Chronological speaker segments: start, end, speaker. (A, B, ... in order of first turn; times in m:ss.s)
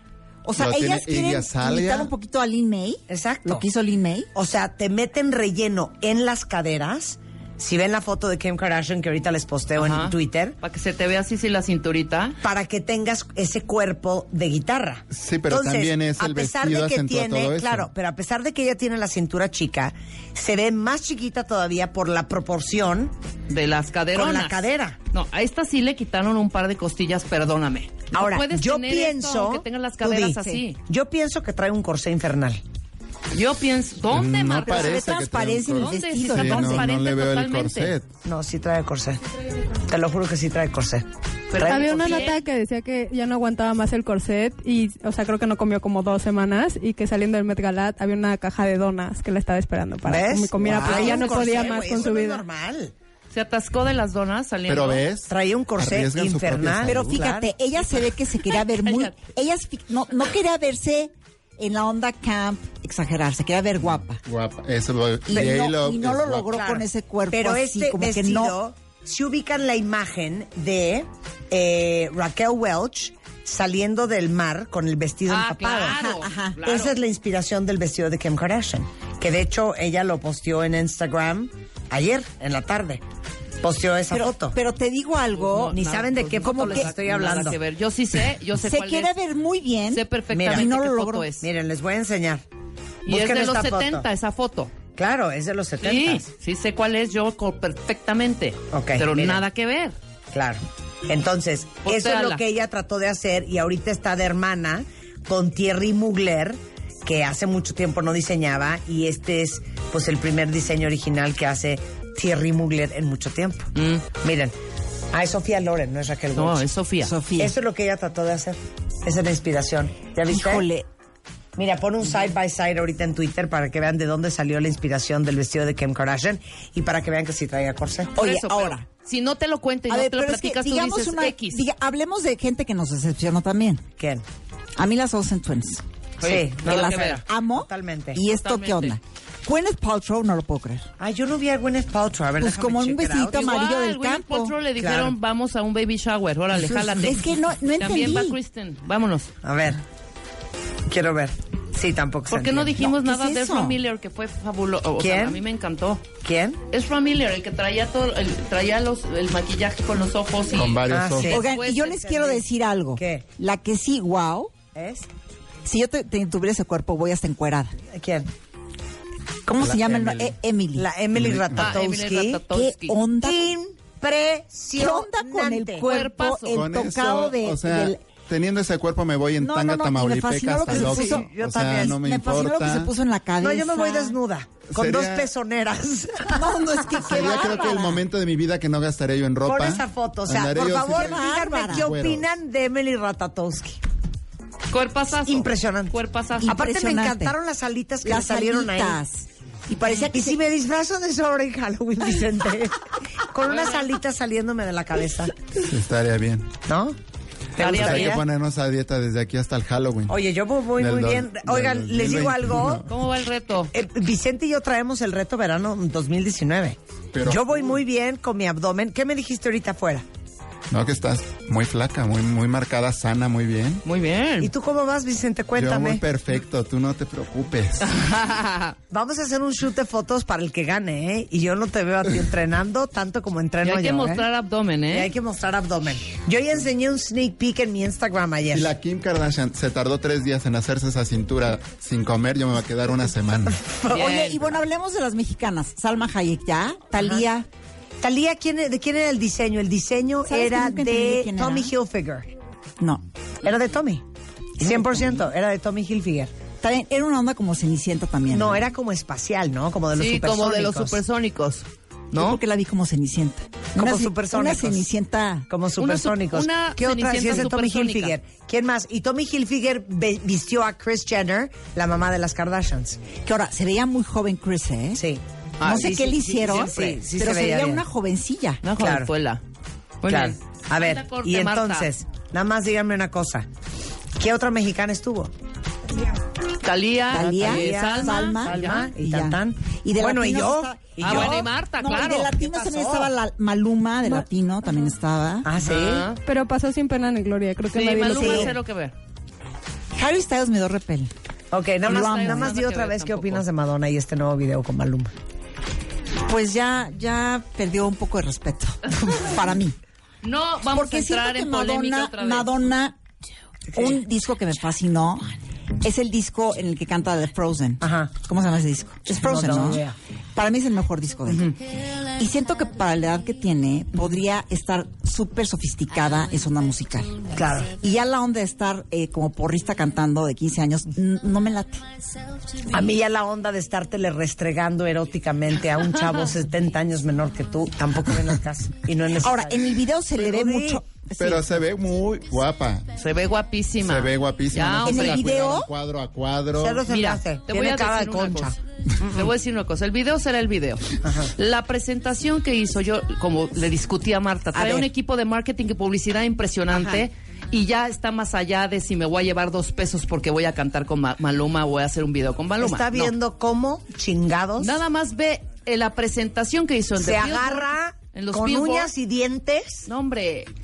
0:00.4-0:04.3 A
0:00.6-0:02.1 B
0:03.1-0:03.7 C
0:04.3-0:10.6 C
0:09.8-0:12.4 D
0:12.4-0:23.1 C
0:15.1-0:17.9 B
0:23.5-0:30.8 D
0:24.1-0:25.0 C
0:28.1-0:32.6 C
0:33.3-0:35.1 D
0:34.1-0:38.1 B
0:34.6-0:36.9 A
0:35.8-0:37.9 D
0:38.2-0:39.2 C
0:39.8-0:42.3 C
0:41.5-0:42.4 D
0:41.6-0:52.4 E
0:50.0-0:52.9 C
0:53.3-0:55.0 D
0:54.7-0:57.2 B
0:55.3-0:57.5 C
0:56.8-1:04.2 A
0:58.6-0:59.1 D
1:04.2-1:06.5 B
1:05.3-1:08.6 A
1:06.5-1:23.0 C
1:15.3-1:16.9 D
1:16.1-1:16.6 A
1:23.6-1:24.6 C
1:24.1-1:25.8 A
1:25.3-1:29.1 D
1:25.7-1:27.6 C
1:26.4-1:26.9 A
1:28.5-1:31.3 A
1:29.9-1:31.5 D
1:30.3-1:30.7 C
1:31.4-1:32.4 C
1:33.1-1:34.1 C
1:33.1-1:34.7 D
1:35.0-1:36.3 C
1:35.8-1:39.9 D
1:38.7-1:39.4 C
1:40.3-1:54.6 C
1:41.8-1:42.4 D
1:53.8-1:54.0 D
1:55.1-1:56.7 C
1:56.4-1:57.1 D
1:57.0-1:57.5 A
1:57.4-2:00.7 C
2:00.3-2:00.9 A
2:01.6-2:08.1 C
2:08.1-2:08.8 A
2:08.2-2:11.6 D
2:09.9-2:13.8 A
2:14.0-2:14.2 C
2:14.8-2:15.8 A
2:16.2-2:17.2 D
2:16.2-2:18.2 C
2:16.6-2:20.9 A
2:18.3-2:19.0 D
2:21.0-2:23.4 C
2:22.4-2:24.5 A
2:23.3-2:29.3 D
2:24.8-2:25.1 C
2:26.5-2:28.4 A
2:29.4-2:29.8 C
2:30.9-2:32.7 C
2:32.3-2:36.0 D
2:32.8-2:33.8 A
2:35.0-2:35.4 C
2:36.2-2:36.6 C
2:36.7-2:42.1 D
2:40.5-2:41.4 B
2:40.9-2:42.4 C
2:41.3-2:44.5 A
2:43.0-2:43.2 C
2:44.7-2:45.1 C
2:45.6-2:47.7 A
2:47.9-2:48.3 C
2:49.5-2:50.9 A
2:49.6-2:50.3 B
2:50.7-2:52.4 C
2:51.1-2:51.7 B
2:51.6-2:53.0 D
2:52.5-2:53.6 A
2:53.2-2:55.9 C
2:54.7-2:58.0 A
2:55.8-2:56.6 D
2:56.5-3:02.9 B
2:59.4-3:04.2 A
3:00.7-3:02.0 C
3:03.4-3:07.5 C
3:04.7-3:05.3 B
3:06.3-3:08.0 A
3:06.9-3:12.3 B
3:09.4-3:13.8 C
3:10.6-3:11.9 A
3:14.7-3:16.6 D
3:15.2-3:19.0 C
3:16.4-3:17.4 A
3:18.0-3:20.4 A
3:19.9-3:25.4 C
3:23.5-3:23.9 D
3:25.6-3:26.5 B
3:26.7-3:27.0 C
3:27.6-3:28.2 C
3:27.6-3:28.2 D
3:27.6-3:30.2 B
3:30.1-3:32.8 C
3:30.8-3:32.9 B
3:32.9-3:33.7 D
3:33.7-3:40.0 C
3:37.1-3:37.8 B
3:40.7-3:43.8 B
3:43.8-3:44.5 D
3:44.4-3:46.0 C
3:45.6-3:48.0 B
3:47.8-3:48.8 D
3:48.9-3:54.3 C
3:53.6-3:55.1 D
3:54.9-3:58.7 C
3:58.5-4:03.6 B
4:03.5-4:04.3 C
4:03.9-4:07.5 A
4:03.9-4:04.4 D
4:08.0-4:12.3 C
4:10.3-4:11.7 A
4:13.4-4:14.0 C
4:14.6-4:15.3 A
4:14.6-4:16.3 C
4:16.6-4:18.6 A
4:18.3-4:21.0 C
4:19.9-4:22.4 D
4:22.1-4:25.5 A
4:23.7-4:24.9 C
4:25.5-4:33.0 C
4:25.8-4:28.1 D
4:33.2-4:35.0 A
4:34.9-4:37.8 C
4:35.6-4:36.7 D
4:35.6-4:38.6 A
4:38.6-4:39.4 D
4:38.8-4:39.1 C
4:40.0-4:41.9 D
4:40.1-4:43.5 C
4:44.2-4:45.3 C
4:46.6-4:48.9 D
4:47.1-4:55.5 A
4:47.1-4:51.4 C
4:51.0-4:52.3 D
4:52.4-4:53.1 C
4:55.4-4:56.1 C
4:55.6-4:56.2 D
4:56.3-4:58.5 E
4:57.7-4:58.9 D
4:58.2-4:58.5 C
4:59.9-5:01.1 A
5:01.5-5:05.1 C
5:01.9-5:02.6 A
5:01.9-5:03.4 D
5:06.3-5:09.8 A
5:10.2-5:12.7 D
5:10.6-5:13.0 A
5:13.7-5:14.0 C
5:13.7-5:21.6 A
5:17.8-5:18.1 C
5:19.1-5:20.0 C
5:21.3-5:21.6 C
5:22.2-5:31.8 A
5:27.3-5:27.7 C
5:32.7-5:40.8 C
5:39.2-5:41.6 A
5:41.2-5:42.9 B
5:42.9-5:45.3 D
5:43.8-5:46.8 B
5:44.8-5:45.7 A
5:46.6-5:49.3 C
5:46.9-6:03.1 D
5:51.0-5:51.3 C
5:54.5-5:54.9 A
6:02.6-6:04.8 C
6:04.6-6:08.9 D
6:07.0-6:09.9 C
6:09.9-6:10.5 D